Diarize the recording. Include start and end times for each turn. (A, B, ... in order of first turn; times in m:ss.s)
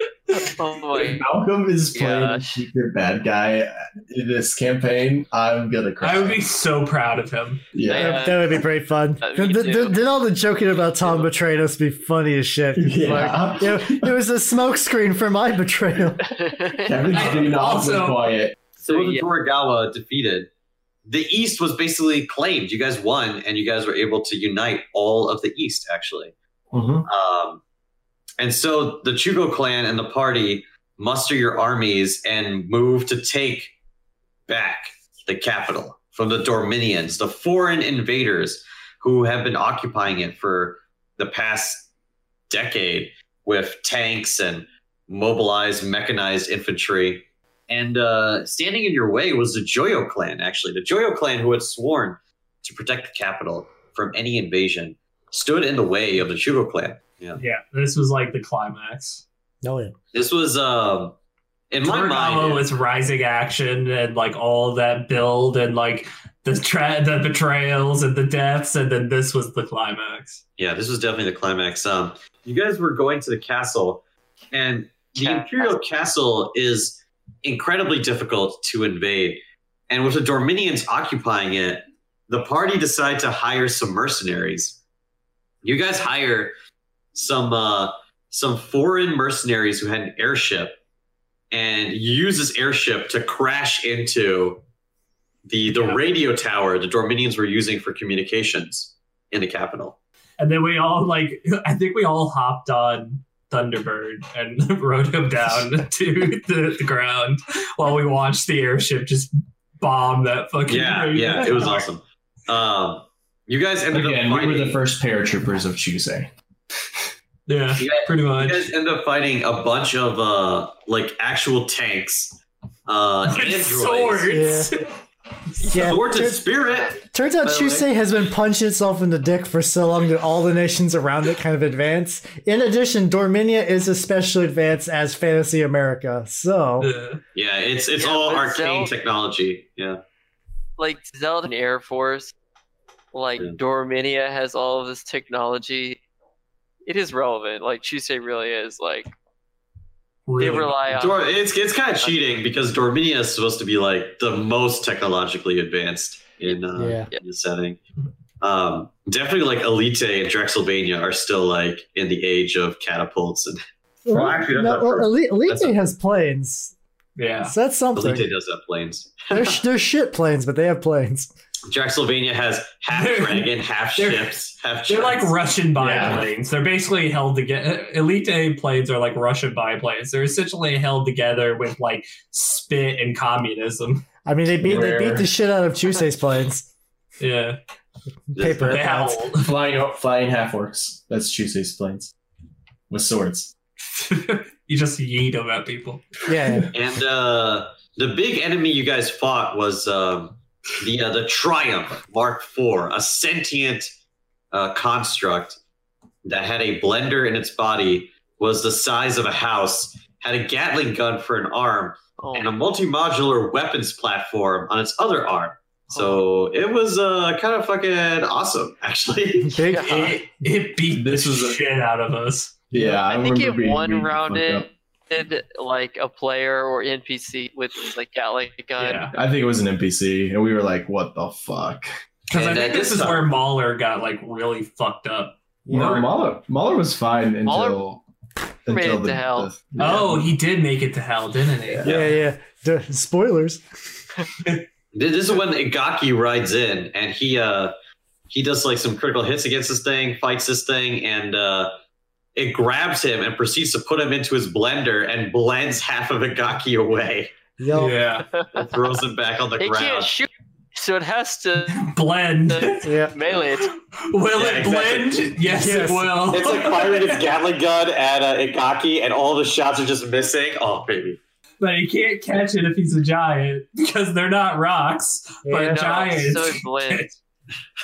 0:00.3-0:01.2 A
0:00.9-0:06.4 B
0:01.9-0:02.6 A
0:06.0-0:07.7 C
0:07.7-0:08.2 B
0:07.8-0:08.7 A
0:07.9-0:16.2 D
0:09.2-0:10.0 A
0:12.8-0:14.1 B
0:16.3-0:17.4 A
0:16.8-0:18.6 B
0:17.1-0:18.2 C
0:18.8-0:20.5 E
0:18.8-0:19.3 A
0:21.0-0:26.3 E
0:26.7-0:27.1 B
0:27.0-0:27.6 E
0:28.4-0:33.7 E
0:34.5-0:41.9 E
0:42.5-0:57.4 E
0:57.4-0:59.2 C
0:59.6-0:59.9 D
1:00.1-1:01.2 E
1:01.7-1:02.7 E
1:01.8-1:10.4 C
1:10.6-1:24.8 E
1:15.1-1:15.8 A
1:25.6-1:26.5 E
1:27.1-1:30.8 E
1:31.5-1:34.6 E
1:35.4-1:40.0 E
1:35.7-1:36.0 C
1:40.4-1:51.9 C
1:50.7-1:54.8 E
1:53.9-1:56.3 B
1:57.5-1:58.7 C
1:57.8-2:04.4 E
2:03.2-2:04.8 C
2:04.3-2:04.7 D
2:05.6-2:07.9 E
2:05.6-2:06.4 D
2:07.0-2:16.9 D
2:16.8-2:17.2 C
2:17.3-2:20.0 E
2:18.0-2:18.9 A
2:20.8-2:22.3 A
2:23.1-2:26.0 A
2:26.8-2:29.1 A
2:30.3-2:30.8 C
2:30.4-2:31.3 A
2:30.9-2:37.8 E
2:32.0-2:32.3 A
2:36.5-2:37.2 A
2:36.8-2:37.1 D
2:38.4-2:45.8 E
2:44.0-2:46.7 D
2:47.2-2:47.5 C
2:47.4-2:48.3 D
2:47.9-2:49.6 E
2:49.3-2:51.3 D
2:51.7-2:55.4 E
2:52.9-3:04.0 C
2:55.8-2:56.2 B
3:04.2-3:06.7 D
3:04.6-3:05.3 B
3:07.2-3:07.6 C
3:08.3-3:09.2 D
3:08.4-3:08.9 E
3:08.6-3:09.5 C
3:09.4-3:12.1 B
3:12.9-3:13.5 B
3:13.9-3:16.2 C
3:16.3-3:16.7 D
3:16.7-3:23.9 E
3:24.5-3:25.6 E
3:26.2-3:39.6 E
3:32.2-3:32.6 A
3:35.9-3:36.2 A
3:39.4-3:40.1 D
3:39.6-3:40.1 A
3:39.8-3:42.6 C
3:40.9-3:41.6 B
3:42.7-3:44.7 B
3:42.9-3:49.1 A
3:48.8-3:49.1 C
3:49.1-3:51.9 B
3:52.3-3:56.1 C
3:52.3-3:53.2 E
3:55.6-3:56.0 D
3:55.7-3:58.0 B
3:57.4-3:57.8 A
3:58.6-4:00.3 B
3:58.7-3:59.5 A
3:59.8-4:01.9 C
4:01.7-4:02.1 B
4:01.8-4:03.6 D
4:04.9-4:07.7 E
4:08.3-4:11.7 E
4:12.3-4:17.3 E
4:17.6-4:18.0 D
4:17.7-4:18.3 C
4:18.3-4:18.6 A
4:18.5-4:20.1 E
4:19.6-4:21.9 A
4:21.7-4:22.9 C
4:22.5-4:23.7 A
4:22.8-4:23.1 D
4:23.5-4:27.3 C
4:24.3-4:25.3 E
4:25.4-4:26.3 D
4:26.3-4:31.2 E
4:31.6-4:37.1 C
4:35.4-4:35.9 D
4:35.6-4:37.1 A